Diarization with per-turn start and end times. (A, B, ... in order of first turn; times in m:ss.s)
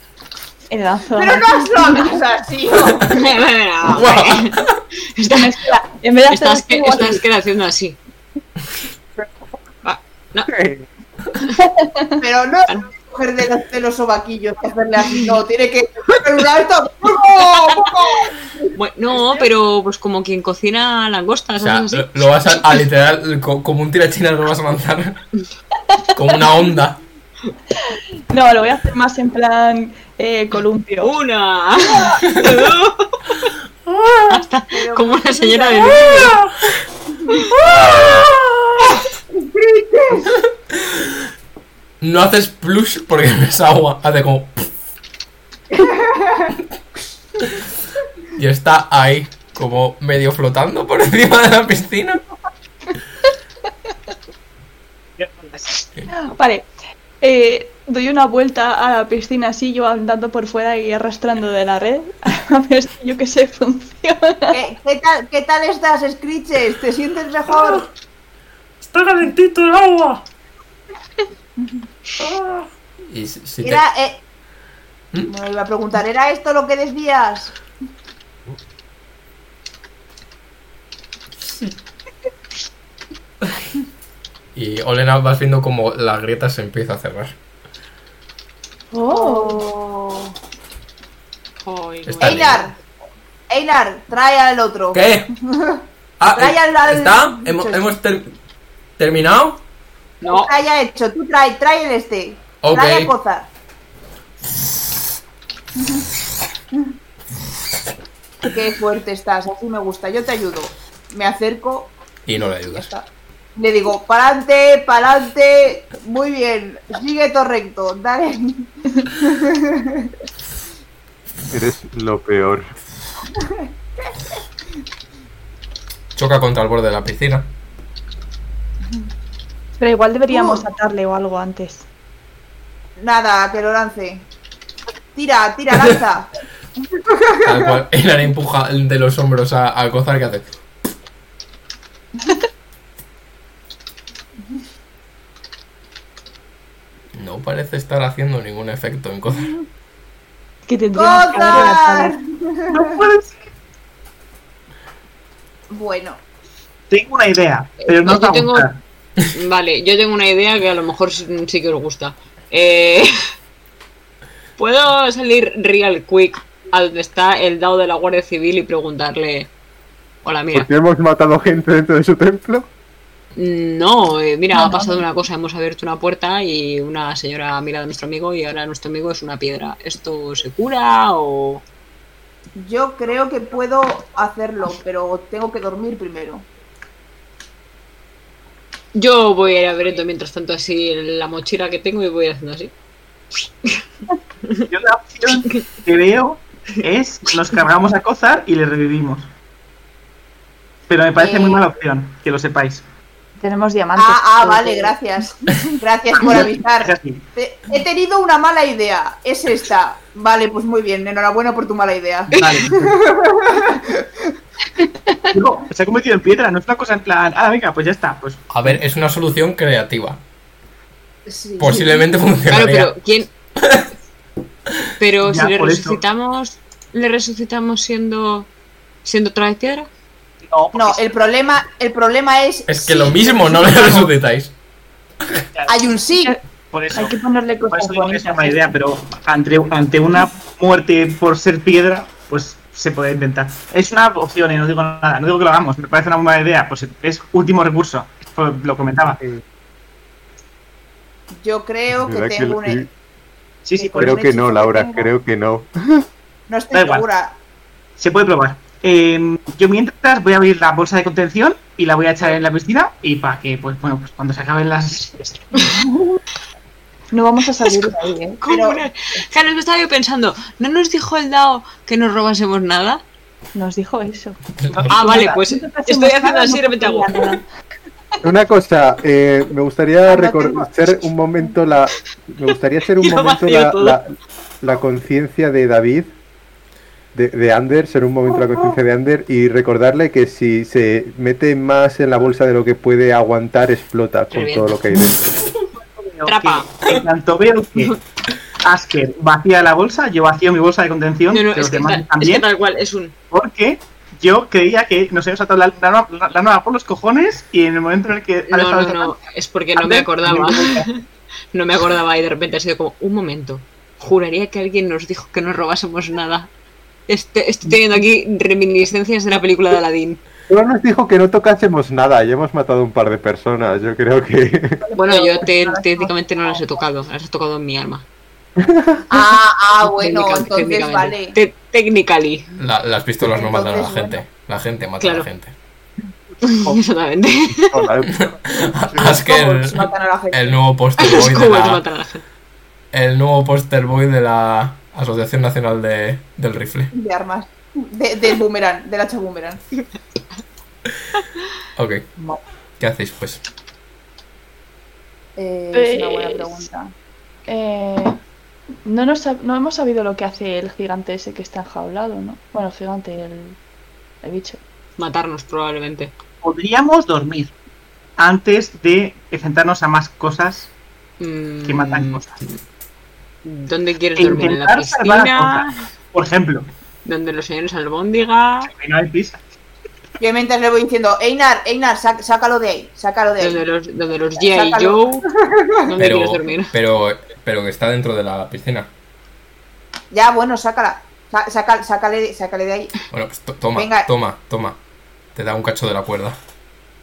0:00.7-0:02.2 A
0:01.2-0:03.2 B
0:03.1-0:04.6 C
0:03.9-0:04.8 D
0:05.2-0:05.8 C
0:05.3-0:07.2 A
0:06.3-0:08.0 C
0:09.8-0:10.5 C
0:10.5-0:10.9 E
0:11.6-0:12.2 A
0:12.2-0:18.7 B
0:18.8-0:22.8 C
0:21.6-0:25.2 D
0:26.2-0:27.0 D
0:28.3-0:31.1 A
0:31.0-0:33.5 C
0:33.9-0:34.4 F
0:34.3-0:36.4 C
0:34.7-0:36.4 B
0:36.2-0:36.5 F
0:39.3-0:40.4 B
0:42.0-0:44.6 D
0:45.7-0:46.5 B
0:48.4-0:52.2 D
0:55.2-0:55.8 G
0:56.1-0:56.7 A
0:57.2-1:04.6 A
1:04.5-1:07.9 B
1:08.8-1:10.3 F
1:12.2-1:12.7 F
1:13.1-1:13.8 D
1:13.6-1:14.2 B
1:15.3-1:17.6 B
1:24.6-1:27.4 D
1:28.9-1:29.6 A
1:29.1-1:30.4 B
1:31.6-1:32.6 C
1:32.0-1:32.7 D
1:32.2-1:32.8 B
1:33.5-1:37.9 B
1:34.9-1:35.3 D
1:36.2-1:38.3 D
1:39.0-1:39.6 D
1:40.2-1:40.5 C
1:40.2-1:43.5 B
1:42.6-1:43.1 D
1:48.4-1:52.0 B
1:52.3-1:52.9 D
1:52.6-2:00.1 B
2:01.5-2:02.7 E
2:06.2-2:07.5 D
2:09.8-2:11.9 A
2:10.3-2:10.6 B
2:13.0-2:14.3 B
2:15.2-2:16.3 B
2:17.1-2:17.7 B
2:17.4-2:20.5 D
2:27.2-2:29.5 D
2:30.7-2:32.1 A
2:31.0-2:33.0 B
2:32.7-2:33.4 G
2:35.7-2:36.2 B
2:36.9-2:38.8 G
2:37.8-2:38.7 C
2:39.3-2:43.2 C
2:44.6-2:49.5 C
2:50.2-2:50.7 C
2:50.5-2:52.7 E
2:53.4-3:01.6 C
2:54.5-2:55.0 A
3:02.6-3:06.5 B
3:09.0-3:12.7 C
3:14.7-3:19.3 G
3:20.9-3:22.8 G
3:21.2-3:21.7 B
3:23.4-3:25.0 A
3:24.0-3:34.1 B
3:25.5-3:25.7 A
3:26.3-3:27.2 G
3:32.3-3:32.9 G
3:35.3-3:38.8 G
3:38.5-3:40.2 D
3:41.3-3:42.1 B
3:41.6-3:42.9 D
3:42.5-3:43.3 C
3:43.6-3:43.9 D
3:45.0-3:48.5 C
3:45.2-3:46.0 G
3:49.0-3:49.9 C
3:50.4-3:51.1 G
3:50.7-3:54.1 B
3:52.7-3:54.5 D
3:55.5-3:55.8 G
3:55.7-3:56.4 B
3:56.7-3:57.2 G
3:56.9-3:58.7 A
3:57.7-4:09.2 G
4:11.4-4:12.9 B
4:11.9-4:12.9 E
4:13.6-4:14.3 G
4:13.8-4:15.1 B
4:14.0-4:16.1 E
4:16.5-4:17.4 B
4:16.7-4:17.1 G
4:18.0-4:25.7 G
4:27.1-4:28.4 A
4:28.4-4:33.0 C
4:28.4-4:28.8 B
4:33.5-4:34.4 A
4:34.6-4:34.9 D
4:34.7-4:35.3 G
4:34.9-4:37.2 C
4:35.0-4:37.4 A
4:38.2-4:46.1 E
4:40.1-4:40.7 B
4:43.0-4:44.0 C
4:47.1-4:55.3 E
4:54.3-4:54.8 C
4:55.8-4:58.0 G
4:56.3-4:56.7 C
4:58.6-5:02.5 G
5:01.3-5:03.1 C
5:03.3-5:09.2 G
5:08.5-5:11.0 C
5:09.8-5:10.9 G
5:11.5-5:16.5 C
5:17.1-5:20.2 C
5:20.5-5:24.8 E
5:24.8-5:26.6 B
5:25.0-5:28.0 C
5:28.6-5:29.0 E
5:29.1-5:31.4 B
5:29.8-5:32.5 C
5:32.6-5:35.5 D
5:33.2-5:34.2 B
5:35.0-5:35.3 C
5:36.4-5:37.9 C
5:37.7-5:38.4 E
5:38.1-5:41.8 D
5:38.9-5:39.2 E
5:39.1-5:40.6 B
5:41.0-5:42.2 C
5:42.9-5:46.9 D
5:46.9-5:49.6 B
5:51.8-5:52.1 D
5:52.8-5:53.4 D
5:55.4-5:56.9 B
5:55.7-5:56.2 A
5:57.5-5:58.2 A
5:58.8-6:03.6 A
6:04.2-6:04.6 A
6:05.0-6:06.1 C
6:06.4-6:07.5 G
6:08.2-6:10.7 G
6:11.2-6:12.5 C
6:11.6-6:12.4 G
6:13.4-6:15.8 C
6:14.2-6:16.7 G
6:17.0-6:18.7 C
6:18.7-6:19.4 G
6:20.2-6:23.6 B
6:23.4-6:25.3 C
6:24.4-6:25.8 B
6:25.8-6:26.7 C
6:26.0-6:28.9 D
6:30.1-6:33.0 B
6:33.1-6:34.8 D
6:33.8-6:34.1 B
6:35.4-6:36.4 D